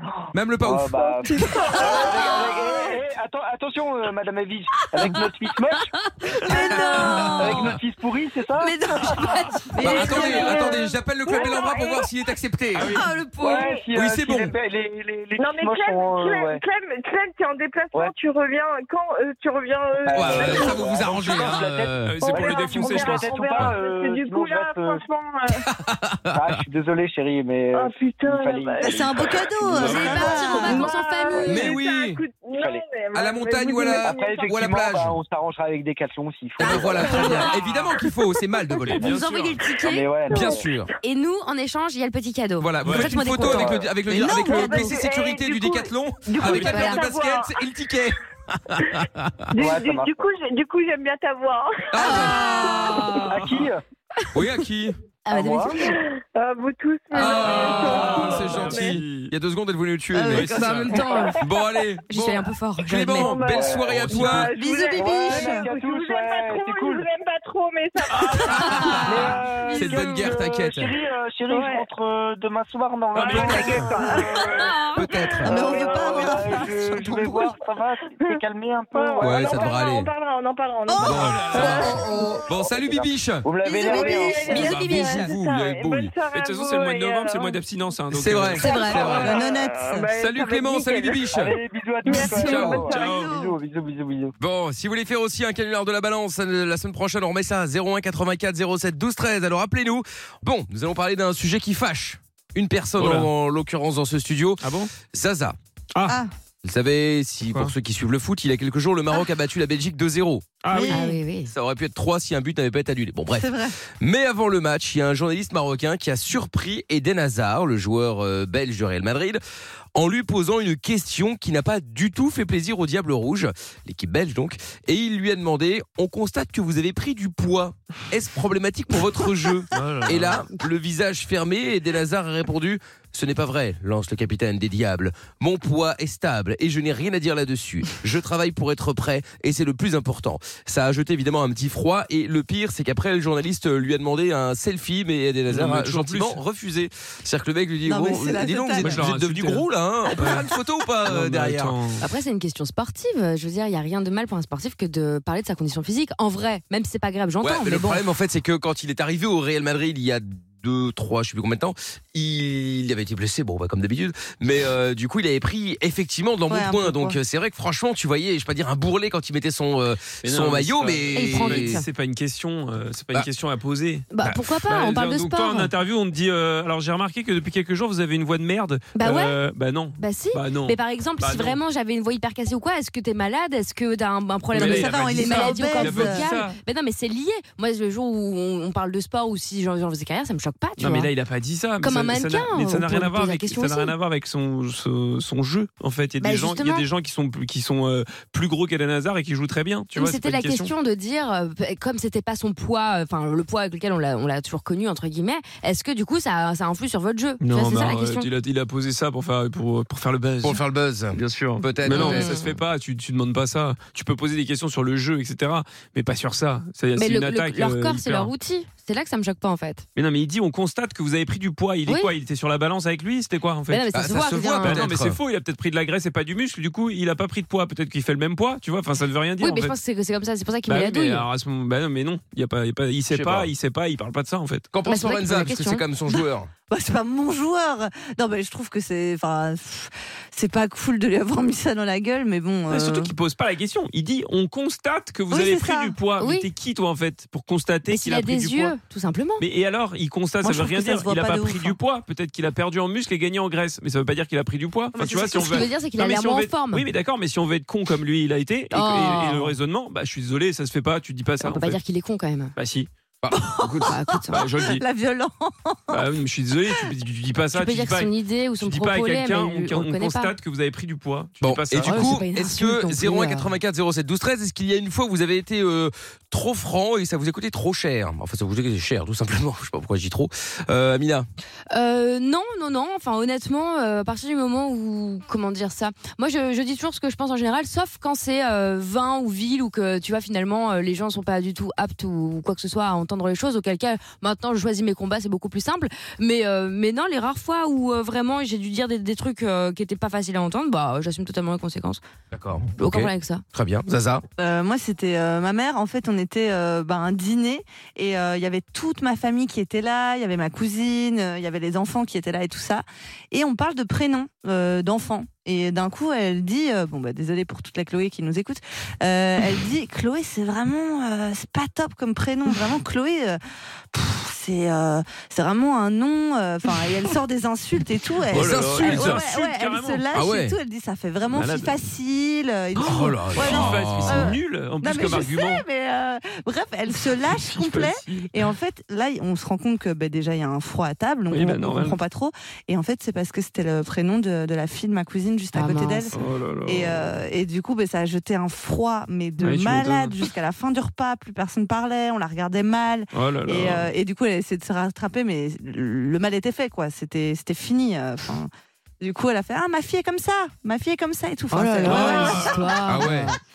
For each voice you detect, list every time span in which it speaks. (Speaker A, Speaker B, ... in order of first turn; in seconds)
Speaker A: 0.3-1.0, 7.0-7.3, 9.8-13.0, 13.9-14.5, 20.1-22.2, 25.7-26.4, 31.5-32.2, 33.1-35.2, 36.6-39.2, 40.3-40.9, 42.6-49.5, 51.9-52.5, 54.3-55.0, 57.1-60.5, 61.4-64.5, 68.5-69.2, 69.8-70.9, 75.0-75.5, 79.2-80.1, 81.0-83.5, 84.5-86.1, 88.1-89.3, 90.2-91.5, 92.4-92.8, 94.4-105.6, 106.6-110.5, 111.5-119.4, 120.0-151.8, 157.4-171.8, 210.4-212.4, 223.9-225.2, 233.1-233.5, 234.7-236.5, 263.2-263.6, 271.4-281.3, 302.3-304.2, 328.3-329.2, 330.1-330.6, 332.8-334.4, 362.9-363.3
Speaker B: 0.6-10.1, 13.4-16.6, 20.0-25.6, 26.3-31.7, 32.6-32.9, 33.9-37.5, 39.8-40.6, 43.4-43.9, 49.5-50.2, 52.4-53.8, 55.3-55.8, 63.2-64.3, 64.8-67.1, 69.0-74.7, 75.5-79.6, 81.6-84.8, 91.3-94.3
Speaker C: 1.3-2.9, 5.0-7.8, 8.6-10.6, 12.8-13.7, 29.8-31.8, 36.6-37.6, 39.0-40.2, 41.0-45.0, 46.5-47.1, 52.0-53.4, 55.2-56.0, 60.1-61.4, 62.1-63.6, 68.5-70.2, 74.5-75.1, 83.9-85.3, 88.6-88.9, 92.1-92.7, 110.9-111.5, 152.0-158.0, 171.2-171.9, 174.1-175.7, 178.9-179.4, 180.0-191.1, 191.8-193.9, 196.2-196.9, 199.9-208.3, 211.8-212.6, 216.9-219.9, 221.9-222.1, 223.7-224.9, 229.4-231.3, 234.8-235.8, 246.1-246.5, 247.9-249.5, 254.9-256.9, 258.7-259.6, 261.4-262.5, 263.9-264.5, 267.5-270.4, 271.8-273.5, 281.7-302.0, 302.8-303.4, 345.5-346.1, 361.5-363.4
Speaker D: 1.5-2.3, 9.8-12.1, 13.5-13.8, 15.4-20.8, 22.3-25.0, 27.7-29.3, 30.0-34.5, 44.7-47.5, 49.5-52.1, 56.4-58.8, 63.2-68.5, 71.5-71.8, 73.2-74.7, 75.5-76.6, 78.9-82.1, 83.7-87.6, 88.7-91.3, 92.1-92.9
Speaker E: 6.5-7.2, 28.8-30.9, 44.1-44.9, 64.4-65.7, 73.9-74.4, 75.4-77.5, 80.9-82.4, 83.8-84.6, 88.6-90.1, 92.1-93.6, 110.7-111.2, 113.3-113.8, 147.9-149.1, 166.5-167.2, 184.5-186.3, 236.7-243.1, 245.3-246.0, 250.4-251.8, 255.0-255.7, 263.3-266.0, 304.4-323.4, 323.9-358.5, 359.0-363.2
Speaker F: 12.8-13.1, 22.0-23.7, 29.8-30.2, 38.9-39.6, 42.8-43.2, 57.2-59.3, 60.3-61.2, 64.0-64.4, 68.1-68.4, 73.1-73.7, 81.1-82.0, 84.5-85.1, 86.3-88.7, 92.9-93.4, 103.0-103.3, 104.6-104.9, 105.9-106.2, 110.6-111.0, 129.7-130.4, 145.5-146.4, 148.8-150.5, 151.1-152.1, 170.2-181.6, 184.5-186.6, 190.8-200.7, 207.4-210.6, 211.1-218.3, 220.0-229.8, 230.7-234.7, 242.7-248.8, 249.4-261.8, 262.6-262.9, 264.3-264.8, 265.9-272.2, 328.3-330.0, 331.3-331.7, 333.3-335.6, 337.3-338.4, 341.3-342.0, 346.1-347.2, 349.4-350.2, 353.1-353.9, 361.9-362.7